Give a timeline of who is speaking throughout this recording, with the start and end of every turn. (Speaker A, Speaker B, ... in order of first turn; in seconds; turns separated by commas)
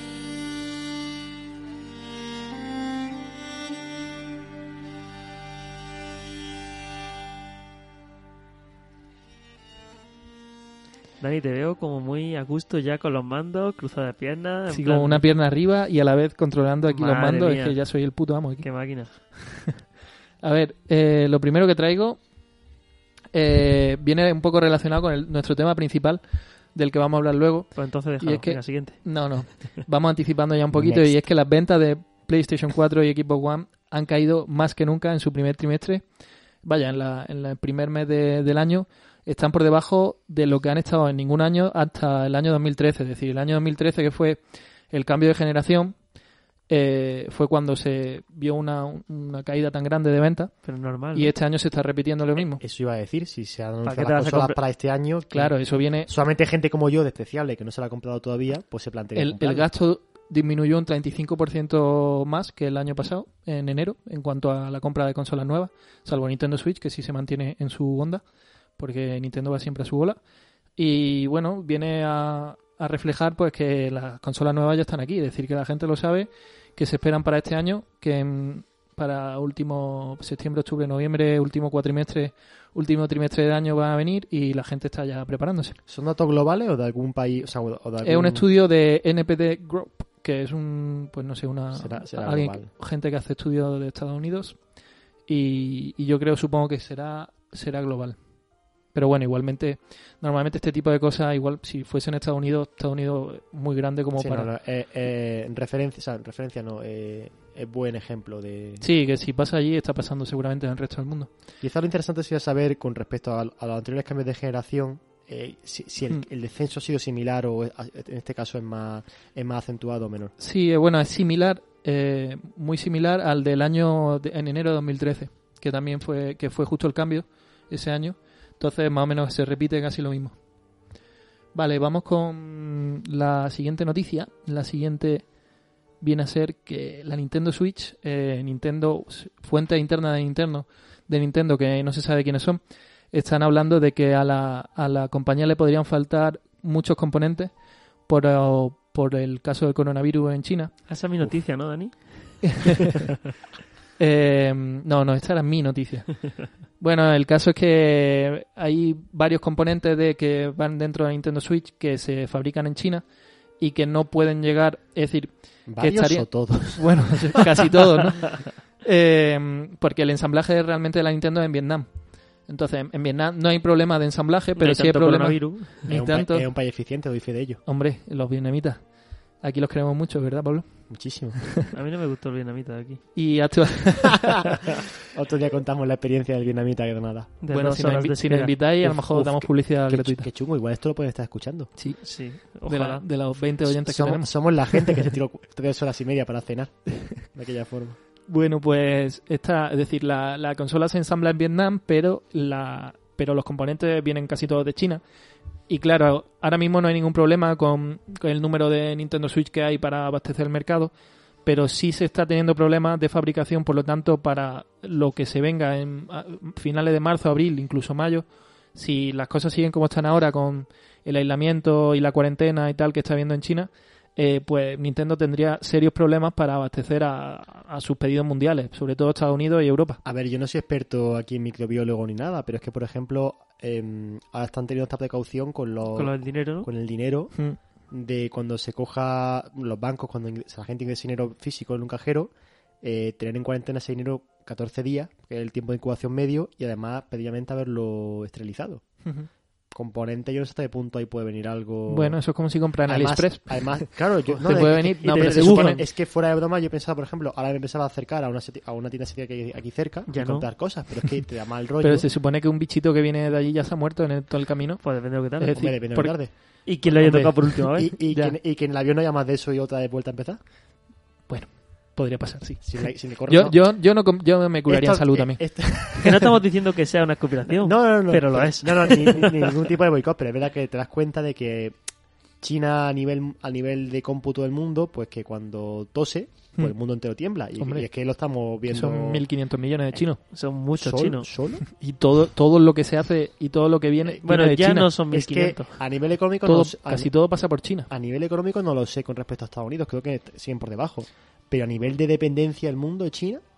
Speaker A: 11.2-15.3, Speaker B: 14.7-19.5, Speaker A: 16.9-19.3, Speaker B: 20.4-22.2, Speaker B: 23.3-36.1, Speaker A: 27.8-29.6, Speaker C: 30.7-31.2, Speaker B: 36.6-46.0, Speaker B: 46.7-52.6, Speaker A: 50.6-51.3, Speaker C: 52.6-59.7, Speaker A: 53.8-54.6, Speaker B: 55.3-56.1, Speaker B: 59.1-68.2, Speaker B: 68.8-70.2, Speaker B: 70.8-85.8, Speaker C: 85.9-88.5, Speaker B: 88.0-94.7, Speaker C: 91.7-92.7, Speaker B: 95.3-98.2, Speaker B: 98.9-104.5, Speaker C: 104.2-108.8, Speaker B: 108.8-111.3, Speaker C: 111.6-120.3, Speaker B: 120.4-130.4, Speaker B: 131.5-135.3, Speaker B: 136.0-150.8, Speaker A: 150.9-152.8, Speaker B: 154.0-163.1, Speaker B: 163.6-176.5, Speaker C: 165.7-167.4, Speaker A: 174.6-175.9, Speaker C: 175.9-177.6, Speaker B: 177.7-181.2, Speaker C: 180.9-181.5, Speaker A: 181.7-183.2, Speaker B: 183.2-184.6, Speaker C: 185.0-187.3, Speaker A: 187.4-188.6, Speaker B: 187.5-190.3, Speaker C: 188.8-191.7, Speaker B: 191.8-195.1, Speaker A: 192.0-193.0, Speaker C: 193.6-198.0, Speaker B: 198.3-205.0, Speaker B: 205.7-210.9, Speaker B: 211.4-230.0, Speaker C: 230.1-242.3, Speaker A: 235.9-236.7, Speaker C: 242.8-249.1, Speaker B: 249.0-249.3, Speaker C: 249.7-262.1, Speaker B: 251.9-255.8, Speaker A: 255.0-255.8, Speaker A: 260.1-260.5, Speaker B: 261.8-268.4, Speaker A: 264.8-265.7, Speaker C: 265.5-266.4, Speaker A: 266.6-267.9, Speaker C: 266.9-270.4, Speaker B: 271.3-276.0, Speaker C: 272.6-273.8, Speaker C: 274.7-276.4, Speaker A: 276.0-279.6, Speaker C: 277.6-281.8, Speaker C: 282.4-289.3, Speaker B: 287.6-287.9, Speaker B: 288.7-290.2, Speaker A: 290.3-291.3, Speaker C: 290.8-291.6, Speaker B: 291.7-294.9, Speaker A: 294.2-295.8, Speaker C: 295.1-297.1, Speaker B: 296.4-297.9, Speaker C: 297.9-303.4